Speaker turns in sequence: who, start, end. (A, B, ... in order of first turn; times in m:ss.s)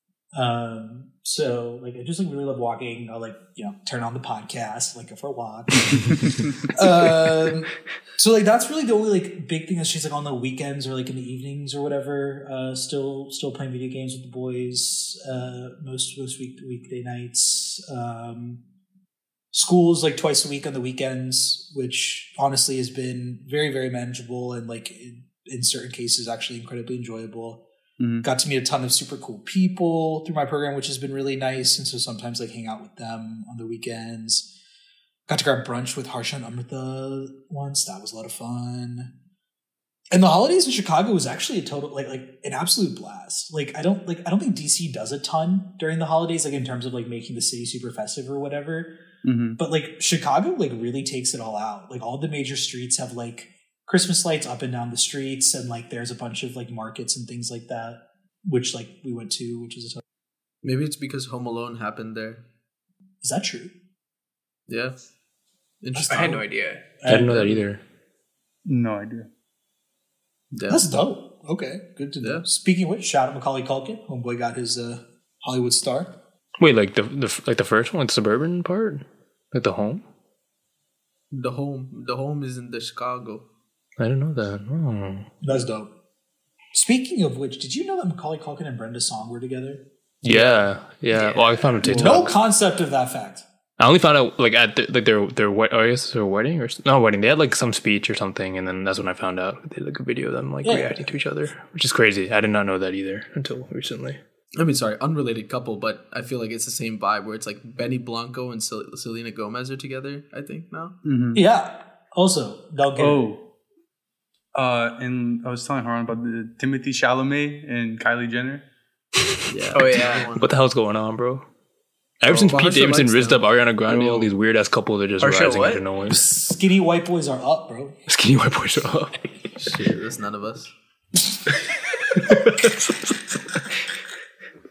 0:00.3-0:18.6 A
0:05.8-0:06.7 B
0:19.5-0:27.6 A
0:28.0-0:28.3 B
0:28.2-0:34.5 A
0:35.3-0:39.1 A
0:40.1-0:49.0 A
0:49.2-0:49.6 B
0:49.6-1:00.0 A
1:00.6-1:02.4 C
1:03.2-1:03.7 A
1:04.7-1:05.0 C
1:05.8-1:06.4 C
1:06.0-1:06.4 A
1:06.1-1:06.9 D
1:07.0-1:07.6 A
1:07.0-1:07.8 E
1:08.6-1:09.3 B
1:10.5-1:10.8 C
1:10.7-1:16.2 A
1:12.2-1:12.4 C
1:16.6-1:20.0 E
1:21.3-1:23.4 C
1:24.0-1:25.3 E
1:25.4-1:25.9 A
1:26.7-1:30.6 A
1:30.2-1:32.3 E
1:31.1-1:31.5 D
1:31.8-1:32.2 B
1:31.8-1:33.4 A
1:33.8-1:44.2 E
1:40.6-1:41.2 A
1:44.6-1:51.0 C
1:51.0-1:51.4 B
1:51.3-1:53.2 A
1:53.0-1:53.4 B
1:54.5-1:58.6 B
1:59.5-2:00.5 C
1:59.7-2:00.3 D
2:00.4-2:01.4 E
2:02.2-2:06.3 E
2:02.3-2:02.5 B
2:02.3-2:03.5 C
2:03.9-2:04.3 B
2:05.2-2:05.8 D
2:06.1-2:08.0 A
2:08.1-2:09.3 E
2:09.6-2:10.7 C
2:12.2-2:13.1 E